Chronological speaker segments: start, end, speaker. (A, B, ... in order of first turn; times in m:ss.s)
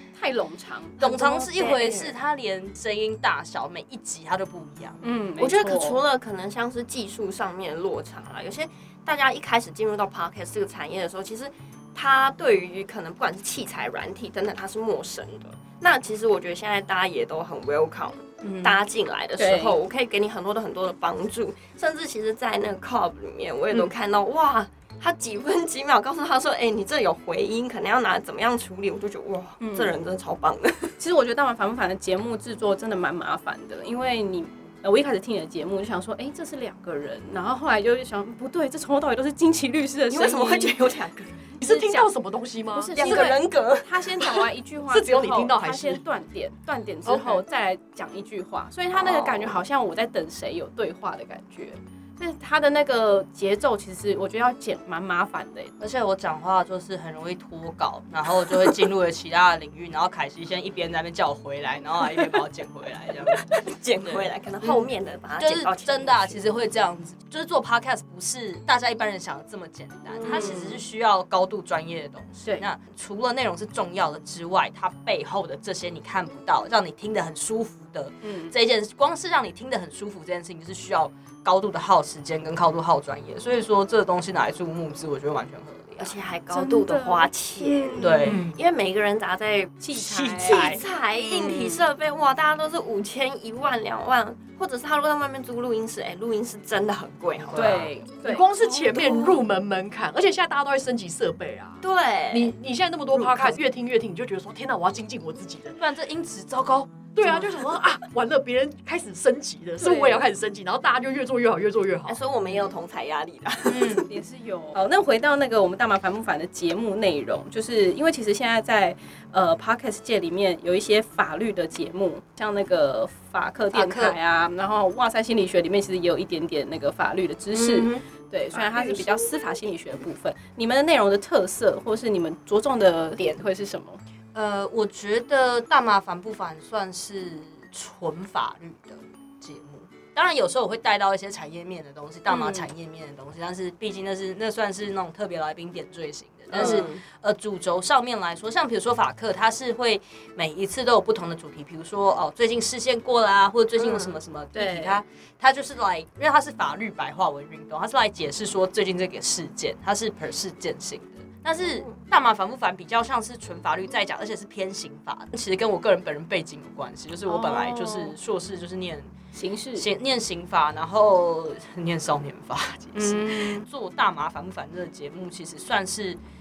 0:00.2-0:01.0 A
0:01.0-0:02.1 B
0:01.0-0:05.0 C
0:05.0-0:06.0 A
0:05.4-0:31.0 B
0:18.5-0:18.8 A
0:19.4-0:19.8 A
0:29.6-0:30.0 A
0:31.0-0:40.9 A
0:40.1-0:41.6 B
0:41.6-0:42.1 A
0:41.6-0:43.3 D
0:42.7-0:55.7 A
0:42.9-0:44.5 B
0:44.9-0:46.0 D
0:47.0-0:47.4 D
0:49.0-0:49.6 B
0:55.8-1:03.5 C
1:03.5-1:06.4 B
1:04.0-1:04.8 C
1:05.4-1:26.2 C
1:10.1-1:10.7 B
1:10.2-1:10.7 A
1:18.2-1:18.5 A
1:26.0-1:29.8 B
1:26.5-1:28.4 A
1:28.0-1:28.4 C
1:28.3-1:28.6 D
1:29.8-1:31.8 A
1:29.9-1:30.8 C
1:30.4-1:37.9 B
1:31.3-1:31.7 C
1:37.4-1:37.9 C
1:37.5-1:38.5 A
1:38.2-1:45.8 D
1:38.8-1:39.4 B
1:41.8-1:42.5 B
1:45.8-1:47.4 C
1:47.2-1:52.2 D
1:49.8-1:50.3 A
1:52.1-1:54.1 B
1:53.7-1:54.0 C
1:53.8-2:14.0 A
2:03.7-2:04.2 C
2:07.5-2:08.0 C
2:14.3-2:49.1 C
2:22.3-2:22.7 A
2:26.5-2:27.0 B
2:26.6-2:26.9 A
2:33.8-2:34.2 B
2:34.5-2:35.0 A
2:41.6-2:42.0 B
2:47.3-2:48.2 A
2:49.3-2:49.9 A
2:49.8-2:56.2 C
2:53.0-2:53.7 A